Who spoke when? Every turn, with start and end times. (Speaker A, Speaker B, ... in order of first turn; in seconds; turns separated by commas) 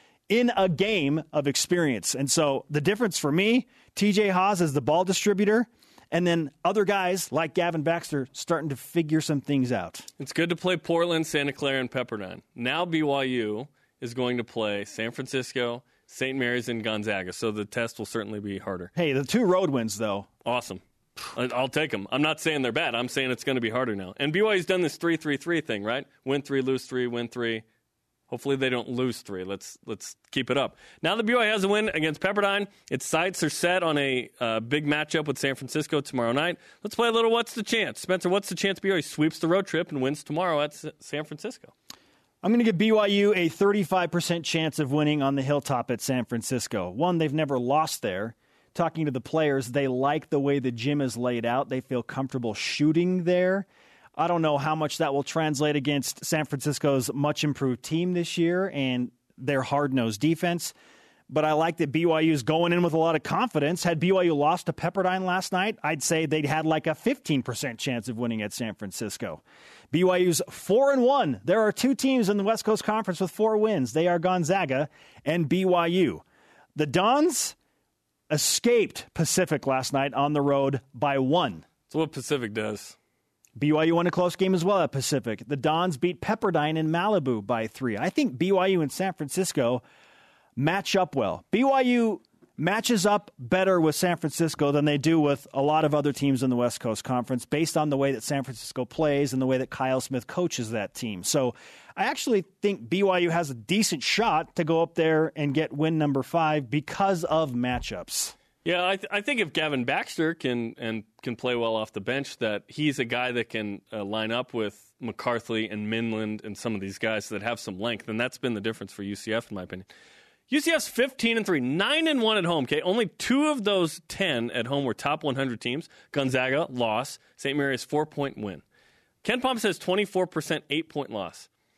Speaker A: 0.3-10.1, Speaker B: 10.2-18.9, Speaker A: 19.0-20.3, Speaker B: 20.4-27.6, Speaker B: 28.3-41.7, Speaker A: 42.4-60.7, Speaker A: 61.3-76.2, Speaker A: 76.8-77.6, Speaker A: 78.3-81.7, Speaker B: 81.9-83.0, Speaker A: 83.6-89.8, Speaker A: 90.6-108.3, Speaker B: 108.7-119.9, Speaker B: 120.5-128.6, Speaker B: 129.2-131.5